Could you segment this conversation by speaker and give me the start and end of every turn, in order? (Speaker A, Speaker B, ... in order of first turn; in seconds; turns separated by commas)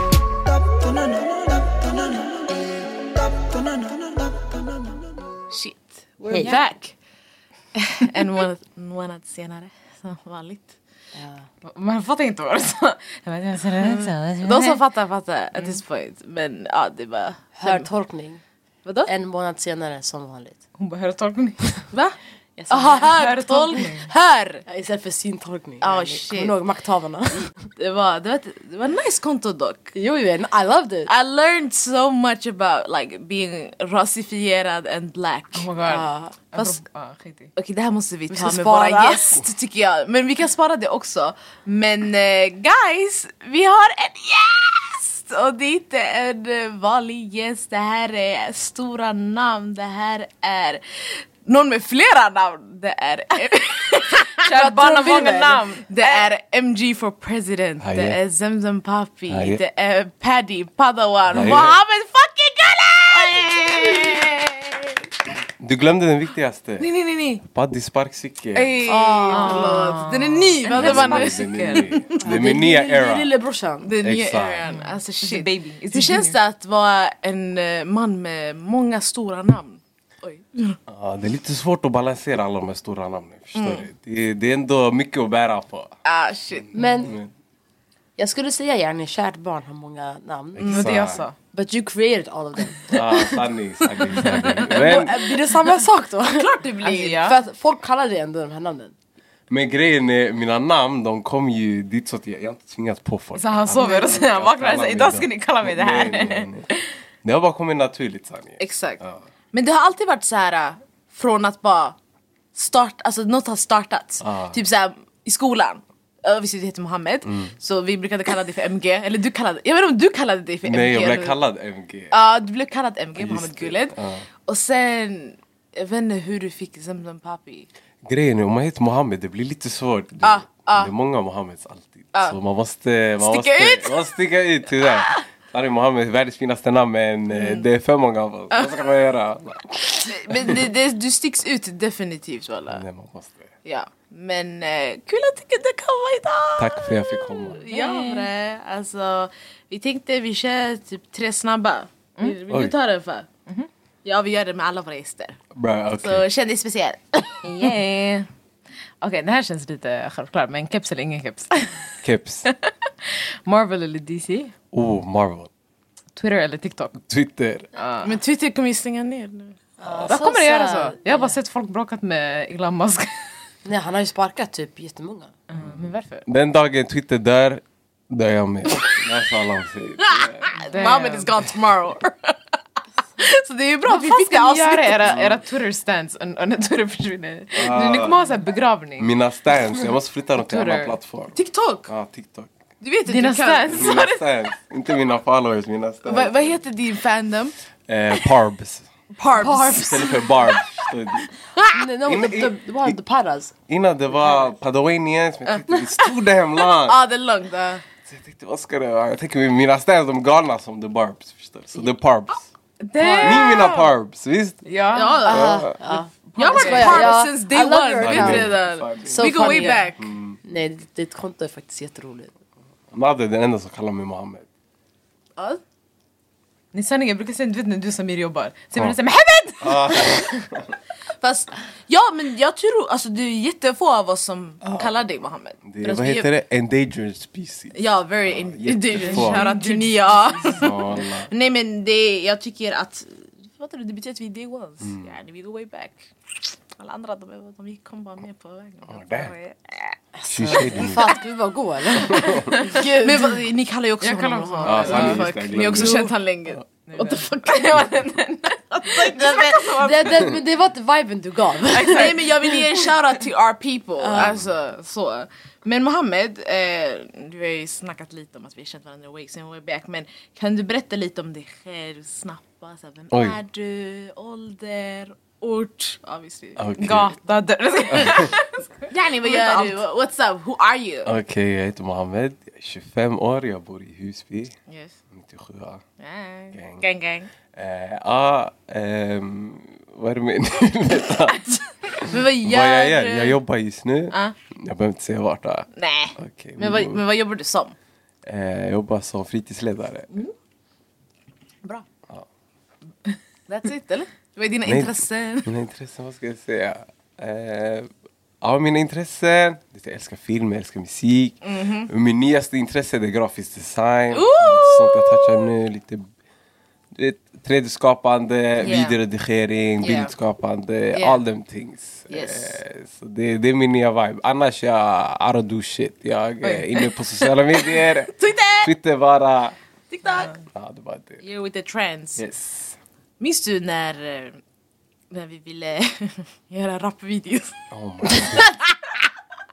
Speaker A: 5.5-7.0, Speaker B: 6.2-6.6, Speaker C: 6.3-6.6, Speaker A: 7.9-10.8, Speaker B: 11.2-11.5, Speaker C: 11.6-14.8, Speaker A: 13.8-17.9, Speaker B: 17.6-18.4, Speaker A: 18.9-19.1, Speaker B: 19.1-20.6, Speaker C: 20.8-21.9, Speaker B: 22.6-23.1, Speaker A: 22.7-24.6, Speaker C: 23.1-24.1, Speaker B: 24.7-27.6, Speaker A: 25.8-26.6, Speaker A: 27.8-29.9, Speaker B: 29.9-31.1, Speaker A: 31.1-35.7, Speaker C: 35.5-37.5, Speaker B: 35.8-36.4, Speaker A: 36.5-36.8, Speaker A: 37.6-64.5, Speaker B: 38.3-39.4, Speaker C: 54.4-56.2, Speaker D: 57.8-58.2, Speaker D: 59.3-59.6, Speaker D: 61.3-61.8, Speaker B: 63.1-64.5, Speaker D: 65.6-66.9, Speaker A: 66.8-67.4, Speaker D: 67.4-68.8, Speaker A: 68.5-72.5, Speaker B: 68.9-69.9, Speaker C: 69.3-71.9, Speaker D: 70.7-73.3, Speaker B: 72.2-73.9, Speaker A: 73.8-80.8, Speaker D: 74.0-74.7, Speaker C: 74.7-76.4, Speaker D: 80.9-85.9, Speaker A: 83.5-83.8, Speaker A: 86.0-86.8, Speaker D: 86.6-87.3, Speaker B: 86.7-87.2, Speaker B: 88.2-93.4, Speaker D: 90.5-91.2, Speaker C: 90.7-91.4, Speaker D: 92.9-95.3, Speaker B: 94.3-96.5, Speaker A: 96.3-97.3, Speaker C: 96.8-97.4, Speaker B: 97.2-98.9, Speaker D: 99.5-106.7, Speaker C: 103.4-106.8, Speaker A: 103.8-104.2, Speaker D: 107.2-109.2, Speaker A: 108.6-109.0, Speaker A: 109.5-112.0, Speaker A: 112.5-121.4, Speaker D: 114.2-114.6, Speaker D: 117.2-117.5, Speaker D: 120.6-122.2, Speaker A: 122.1-124.0, Speaker D: 123.2-124.3, Speaker A: 124.5-127.7, Speaker D: 128.1-140.7, Speaker A: 130.2-130.9, Speaker A: 133.2-134.1, Speaker A: 134.8-135.2, Speaker A: 137.3-137.7, Speaker A: 138.5-138.8, Speaker A: 140.1-142.8, Speaker D: 142.7-143.5, Speaker A: 143.7-153.3, Speaker D: 146.6-147.6, Speaker C: 147.7-148.3, Speaker D: 152.5-152.7, Speaker A: 154.1-155.4, Speaker D: 155.5-156.3, Speaker A: 156.0-157.7, Speaker C: 157.4-158.3, Speaker C: 159.0-161.7, Speaker D: 162.0-162.5, Speaker C: 162.5-164.5, Speaker D: 164.7-165.5, Speaker C: 166.2-167.0, Speaker D: 167.1-167.7, Speaker C: 167.7-168.1, Speaker A: 168.0-169.6, Speaker B: 169.8-171.3, Speaker D: 169.8-170.1, Speaker C: 170.1-173.1, Speaker B: 173.7-175.3, Speaker C: 175.5-176.2, Speaker D: 175.6-180.5, Speaker A: 180.1-182.4, Speaker C: 180.5-181.3, Speaker A: 183.2-185.1, Speaker C: 183.8-189.1, Speaker D: 185.0-185.4, Speaker D: 187.6-188.2, Speaker D: 189.0-192.6, Speaker C: 190.4-190.9, Speaker A: 191.3-191.9, Speaker A: 192.8-193.9, Speaker C: 193.1-194.5, Speaker D: 193.7-196.6, Speaker A: 196.0-197.6, Speaker D: 197.9-198.9, Speaker A: 199.2-200.5, Speaker B: 199.4-200.0, Speaker D: 199.7-201.3, Speaker A: 201.6-201.8, Speaker B: 201.7-203.5, Speaker D: 202.1-203.0, Speaker D: 203.7-207.0, Speaker A: 205.5-207.8, Speaker D: 208.1-212.4, Speaker C: 212.8-213.9, Speaker D: 213.2-214.6, Speaker C: 214.7-215.3, Speaker A: 214.9-215.6, Speaker D: 215.2-215.8, Speaker B: 215.2-222.3, Speaker C: 216.3-217.2, Speaker A: 216.4-220.1, Speaker D: 218.0-219.3, Speaker C: 219.2-219.8, Speaker D: 219.9-220.4, Speaker D: 222.9-224.5, Speaker C: 226.7-230.4, Speaker D: 229.6-230.8, Speaker A: 231.2-236.3, Speaker D: 234.7-234.9, Speaker D: 235.7-237.8, Speaker A: 237.7-250.0, Speaker D: 238.3-239.5, Speaker C: 238.9-240.7, Speaker D: 240.6-241.3, Speaker D: 244.8-245.1, Speaker D: 248.9-249.3, Speaker B: 250.2-253.4, Speaker D: 250.3-251.1, Speaker D: 251.9-252.5, Speaker C: 252.5-252.8, Speaker A: 252.6-257.9, Speaker C: 254.0-255.2, Speaker D: 254.6-256.1, Speaker B: 255.7-256.0, Speaker C: 256.9-260.2, Speaker A: 258.8-259.9, Speaker B: 259.8-262.3, Speaker C: 261.7-262.8, Speaker A: 261.9-277.1, Speaker B: 264.0-264.3, Speaker D: 264.1-264.5, Speaker D: 273.1-273.4, Speaker D: 276.6-277.2, Speaker C: 276.8-279.8, Speaker D: 277.9-278.3, Speaker A: 277.9-278.2, Speaker A: 278.9-281.1, Speaker D: 281.1-284.6, Speaker A: 284.7-284.9, Speaker D: 285.1-285.8, Speaker A: 286.0-287.3, Speaker D: 286.5-286.8, Speaker D: 287.5-297.0, Speaker A: 292.0-293.4, Speaker A: 294.1-294.4, Speaker A: 295.8-297.8, Speaker D: 298.2-300.1, Speaker A: 303.5-305.5, Speaker D: 304.6-307.9, Speaker D: 308.4-316.1, Speaker A: 311.4-311.9, Speaker A: 314.1-315.5, Speaker D: 316.9-329.6, Speaker A: 318.6-319.0, Speaker A: 319.8-320.1, Speaker A: 320.9-321.2, Speaker A: 322.1-322.6, Speaker A: 326.4-328.7, Speaker A: 329.9-330.4, Speaker D: 330.5-331.2, Speaker A: 331.2-332.2, Speaker D: 332.2-332.8, Speaker A: 333.2-334.4, Speaker A: 335.1-339.0, Speaker D: 337.7-338.5